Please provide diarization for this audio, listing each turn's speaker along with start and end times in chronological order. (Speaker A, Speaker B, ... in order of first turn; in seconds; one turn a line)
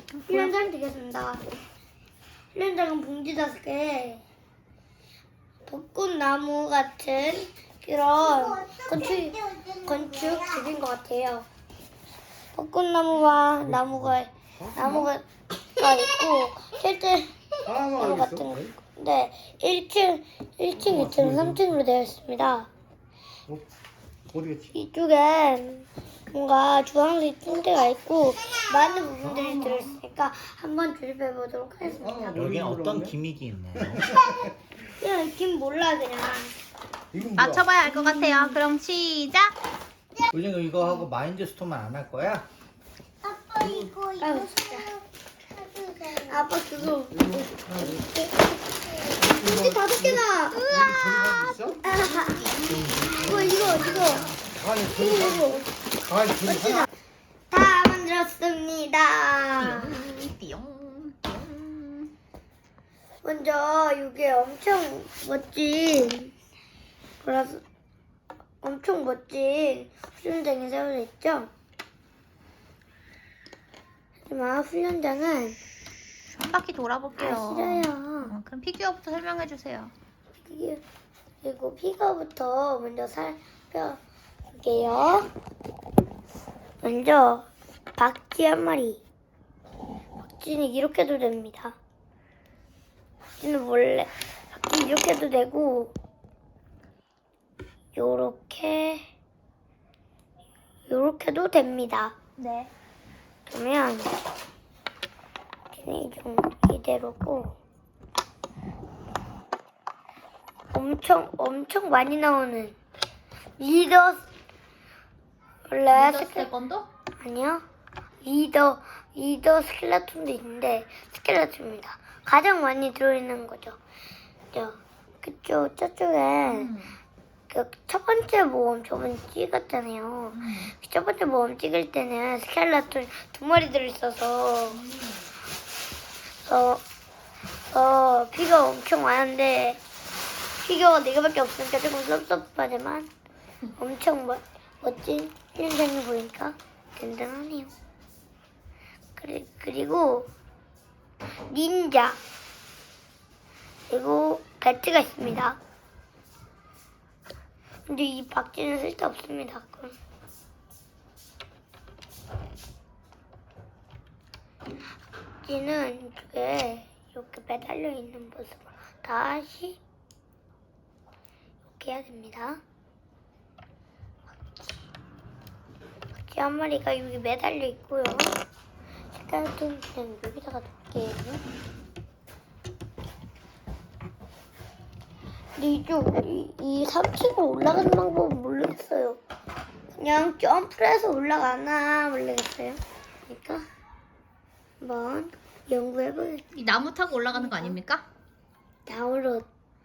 Speaker A: 0.2-0.5
Speaker B: 0.3-1.4
Speaker B: 2.5-4.2
Speaker B: 5.7-11.4
Speaker C: 8.6-9.8
Speaker B: 12.5-22.7
Speaker D: 17.7-18.6
Speaker D: 21.0-21.5
Speaker D: 24.3-24.6
Speaker B: 24.7-32.4
Speaker D: 32.0-33.1
Speaker E: 32.4-34.2
Speaker B: 35.0-36.5
Speaker D: 37.1-37.6
Speaker A: 37.4-39.5
Speaker E: 40.3-42.5
Speaker C: 43.2-45.0
Speaker B: 44.2-44.9
Speaker C: 45.5-46.3
Speaker B: 46.2-48.3
Speaker D: 47.2-48.0
Speaker D: 49.2-51.8
Speaker B: 49.2-50.6
Speaker A: 50.5-53.4
Speaker B: 51.8-52.4
Speaker D: 52.8-53.9
Speaker B: 53.1-55.7
Speaker D: 54.5-55.5
Speaker D: 56.0-56.9
Speaker B: 56.4-56.8
Speaker B: 57.5-60.0
Speaker A: 59.6-62.1
Speaker B: 63.2-66.3
Speaker B: 67.2-67.6
Speaker B: 68.6-71.5
Speaker B: 74.3-75.6
Speaker A: 76.3-79.9
Speaker B: 77.2-78.3
Speaker B: 80.4-80.8
Speaker B: 81.4-84.0
Speaker B: 84.5-85.3
Speaker B: 86.8-89.0
Speaker B: 90.2-91.8
Speaker B: 93.4-95.9
Speaker B: 97.9-99.0
Speaker B: 100.9-102.1
Speaker A: 102.4-102.7
Speaker B: 103.5-104.1
Speaker B: 105.7-107.5
Speaker B: 110.7-112.8
Speaker B: 113.6-114.3
Speaker B: 115.7-116.5
Speaker A: 115.9-116.9
Speaker B: 117.2-117.6
Speaker B: 118.2-123.8
Speaker B: 124.5-126.7
Speaker A: 126.5-127.0
Speaker B: 127.5-134.8
Speaker A: 130.3-130.7
Speaker B: 136.4-136.8
Speaker B: 137.7-139.8
Speaker B: 140.6-143.1
Speaker B: 143.8-147.7
Speaker B: 149.2-150.3
Speaker B: 151.5-152.2
Speaker B: 153.9-155.6
Speaker B: 157.9-159.9
Speaker B: 165.4-169.8
Speaker B: 171.8-172.6
Speaker B: 174.4-174.8
Speaker B: 176.2-178.3
Speaker B: 179.1-181.4
Speaker B: 185.6-189.2
Speaker B: 189.9-193.6
Speaker B: 194.8-196.4
Speaker A: 196.5-198.0
Speaker B: 197.3-197.8
Speaker B: 198.9-199.5